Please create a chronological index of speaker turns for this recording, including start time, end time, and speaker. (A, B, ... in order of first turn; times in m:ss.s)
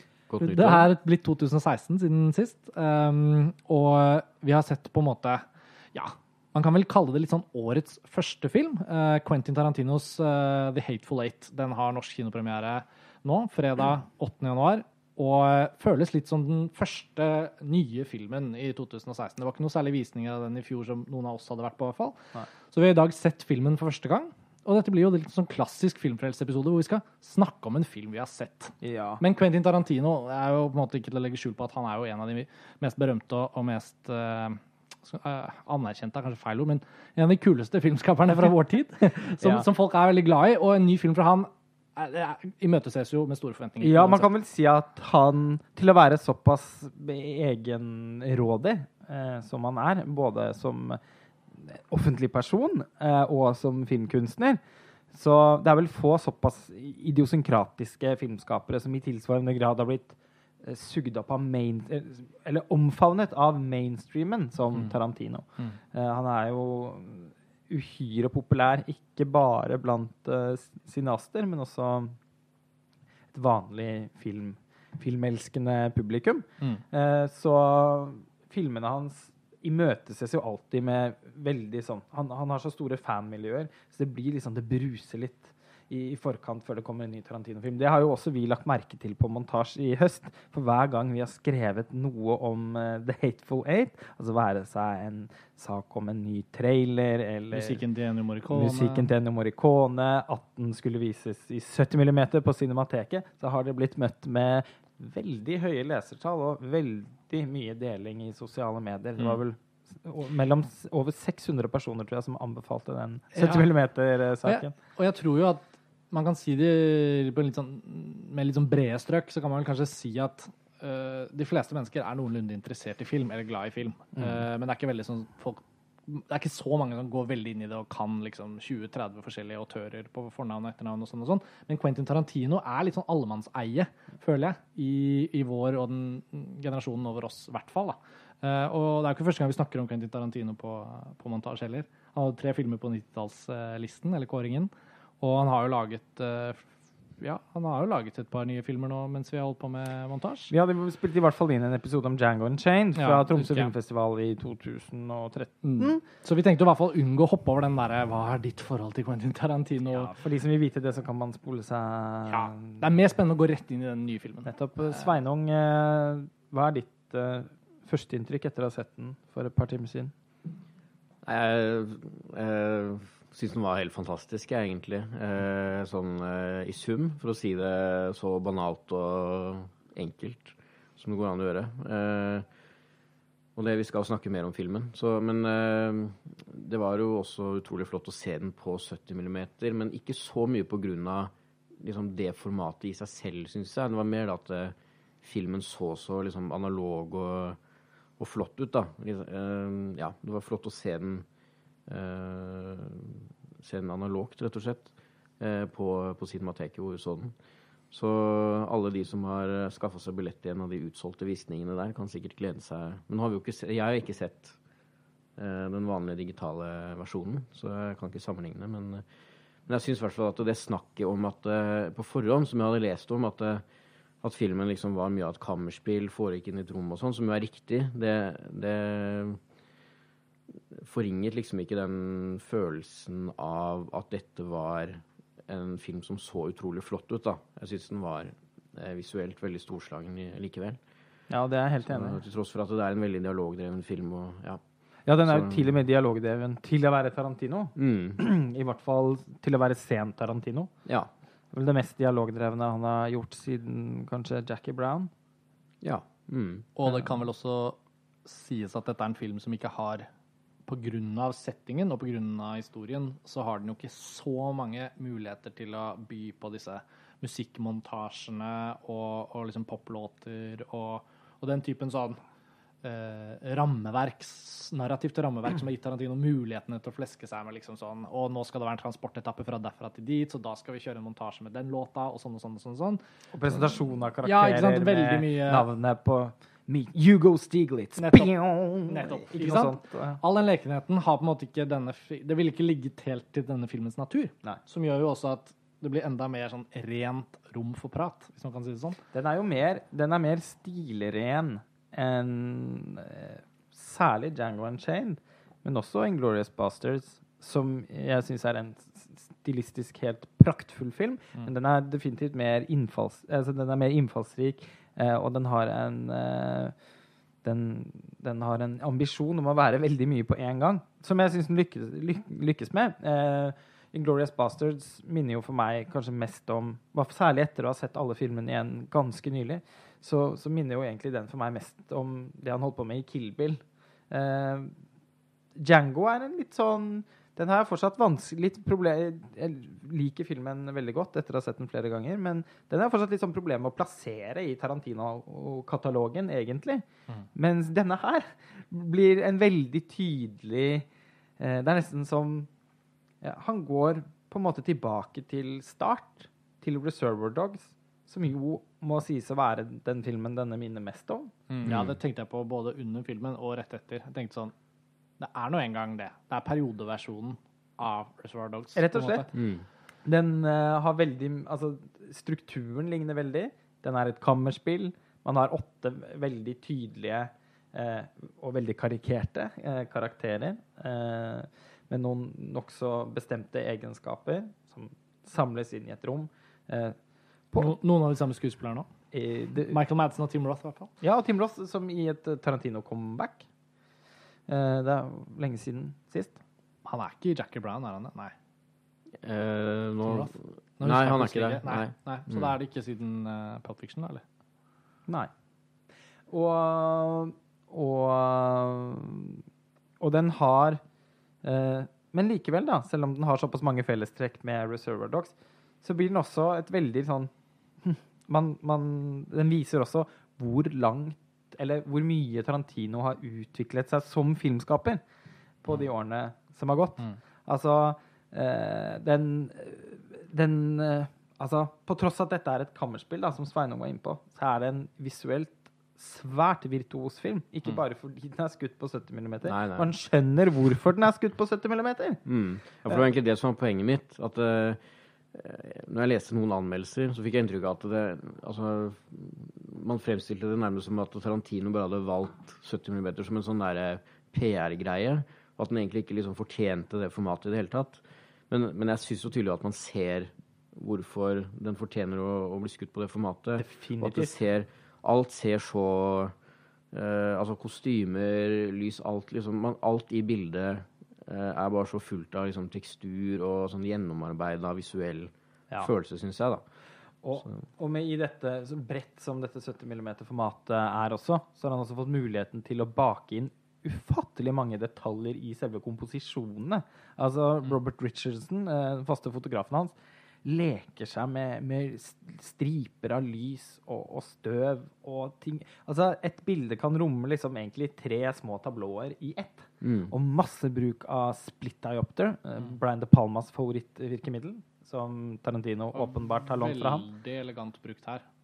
0:00.3-0:00.9 A
0:00.4-0:22.2 B
0:22.7-0:44.3 B
0:28.8-0:29.2 C
0:39.4-0:39.7 C
0:43.8-0:51.0 C
0:51.5-0:54.6 C
0:55.1-1:12.2 C
1:13.3-1:37.8 C
1:37.5-1:39.1 B
1:38.5-1:54.7 C
1:53.4-1:53.7 B
1:54.4-2:26.7 B
2:27.2-2:30.5 B
2:30.5-2:36.0 C
2:33.0-2:33.7 B
2:35.6-2:40.1 B
2:39.9-2:42.8 C
2:42.3-2:45.1 B
2:44.5-2:50.1 C
2:51.2-3:02.4 A
3:03.6-3:17.6 A
3:18.2-3:21.2 A
3:21.9-3:27.3 A
3:27.9-3:34.6 A
3:35.4-3:39.0 A
3:39.7-3:43.6 A
3:44.2-3:49.4 A
3:50.7-4:00.8 A
4:01.3-4:02.2 C
4:01.9-4:04.6 A
4:05.1-4:10.7 C
4:05.2-4:05.6 A
4:07.8-4:08.2 A
4:11.5-4:15.1 C
4:15.8-4:16.7 A
4:16.8-4:20.1 B
4:20.7-4:32.2 B
4:32.8-4:43.0 B
4:43.3-4:50.2 C
4:44.2-4:45.7 B
4:48.0-4:48.3 B
4:48.8-4:59.0 B
4:59.1-5:16.8 C
5:17.4-5:34.7 C
5:35.6-5:50.9 C
5:51.4-5:52.5 C
5:53.2-6:01.3 C
6:01.5-6:04.5 B
6:01.7-6:01.9 A
6:05.2-6:09.3 B
6:08.8-6:09.3 C
6:09.3-6:09.6 A
6:10.0-6:27.0 C
6:27.6-6:28.9 B
6:29.1-6:29.8 C
6:29.7-6:30.9 B
6:31.0-6:33.4 C
6:34.5-6:36.4 C
6:36.8-6:38.3 B
6:39.2-6:42.5 A
6:40.1-6:44.2 B
6:46.3-6:49.4 C
6:50.0-6:50.8 C
6:51.4-6:57.3 C
6:57.8-7:05.0 C
7:05.6-7:22.2 C
7:19.5-7:19.9 A
7:22.3-7:24.8 A
7:25.3-7:46.3 A
7:43.6-7:44.3 C
7:46.9-7:56.6 A
7:57.2-8:27.1 C
8:19.8-8:20.1 A
8:26.0-8:28.2 B